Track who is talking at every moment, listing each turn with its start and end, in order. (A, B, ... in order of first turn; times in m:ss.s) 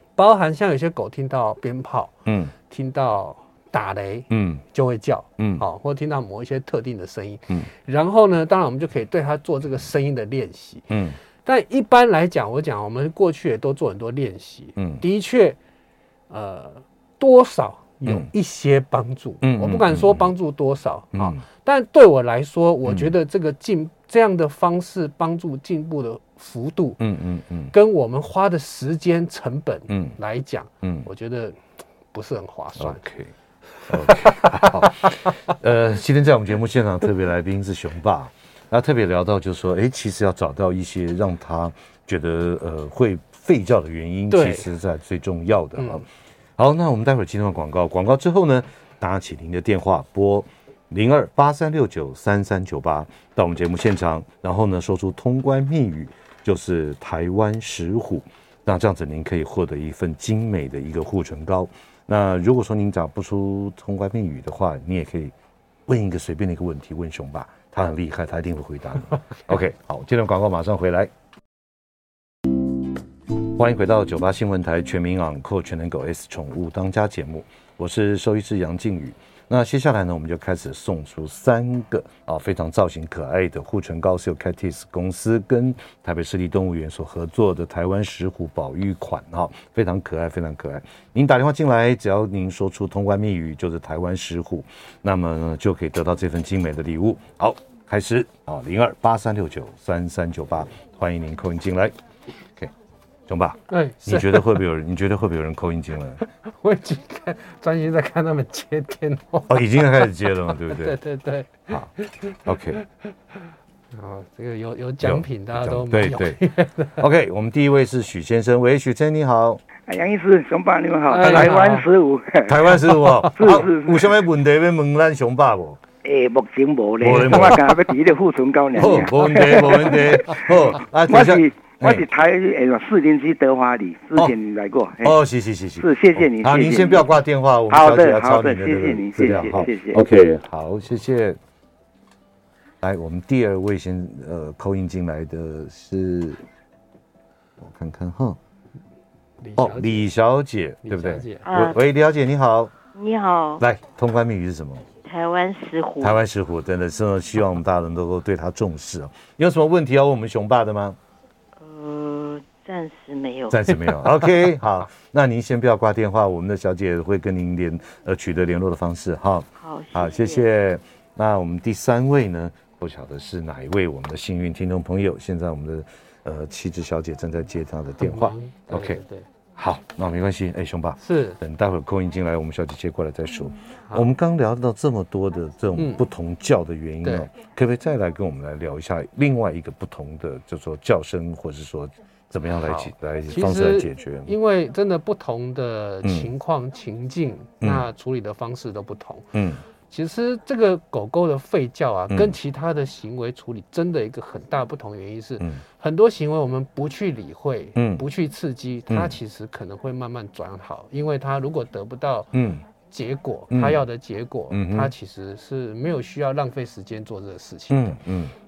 0:00.2-0:02.1 A
0:02.2-0:02.5 B
0:02.7-0:10.9 A
0:04.3-0:04.6 B
0:05.4-0:05.6 B
0:10.9-0:11.2 B
0:11.4-0:15.6 A
0:14.8-0:15.0 B
0:16.3-0:27.0 A
0:19.4-0:20.2 B
0:21.1-0:21.4 B
0:22.8-0:23.1 B
0:27.0-0:27.7 B
0:27.7-0:31.6 A
0:29.9-0:30.2 B
0:32.1-0:33.0 A
0:32.8-0:33.3 B
0:33.8-0:35.4 A
0:33.9-0:46.0 B
0:44.3-0:44.7 A
0:45.8-0:46.0 A
0:46.6-1:05.3 B
1:05.9-1:11.1 B
1:13.3-1:41.9 B
1:43.3-1:46.2 B
1:43.7-1:44.6 A
1:46.2-1:52.8 A
1:49.5-1:51.0 B
1:52.4-1:52.8 B
1:53.9-1:57.0 A
1:55.0-1:56.4 B
1:57.0-1:59.6 B
1:59.9-2:04.1 C
2:01.1-2:01.8 A
2:02.5-2:05.8 B
2:06.0-2:15.2 C
2:07.0-2:07.7 B
2:08.8-2:12.0 B
2:15.0-2:21.4 B
2:15.8-2:17.0 C
2:17.7-2:20.0 C
2:22.8-2:26.4 B
2:27.6-2:28.4 B
2:29.4-2:30.1 A
2:29.6-2:32.7 B
2:30.8-2:31.5 A
2:31.4-2:31.8 D
2:32.9-2:33.6 D
2:33.6-2:34.9 B
2:35.0-2:36.2 D
2:36.0-2:41.0 B
2:41.6-2:43.7 D
2:43.5-2:59.0 B
2:49.6-2:50.4 D
2:58.0-2:59.2 A
2:59.6-3:14.3 B
3:01.0-3:01.4 A
3:05.7-3:06.0 A
3:07.0-3:07.3 A
3:12.6-3:19.3 A
3:16.0-3:16.3 B
3:17.6-3:17.9 B
3:19.3-3:19.6 B
3:19.9-3:38.0 A
3:27.8-3:28.0 B
3:28.9-3:29.2 B
3:32.3-3:32.6 B
3:33.5-3:33.8 B
3:34.5-3:34.9 B
3:37.7-3:38.3 B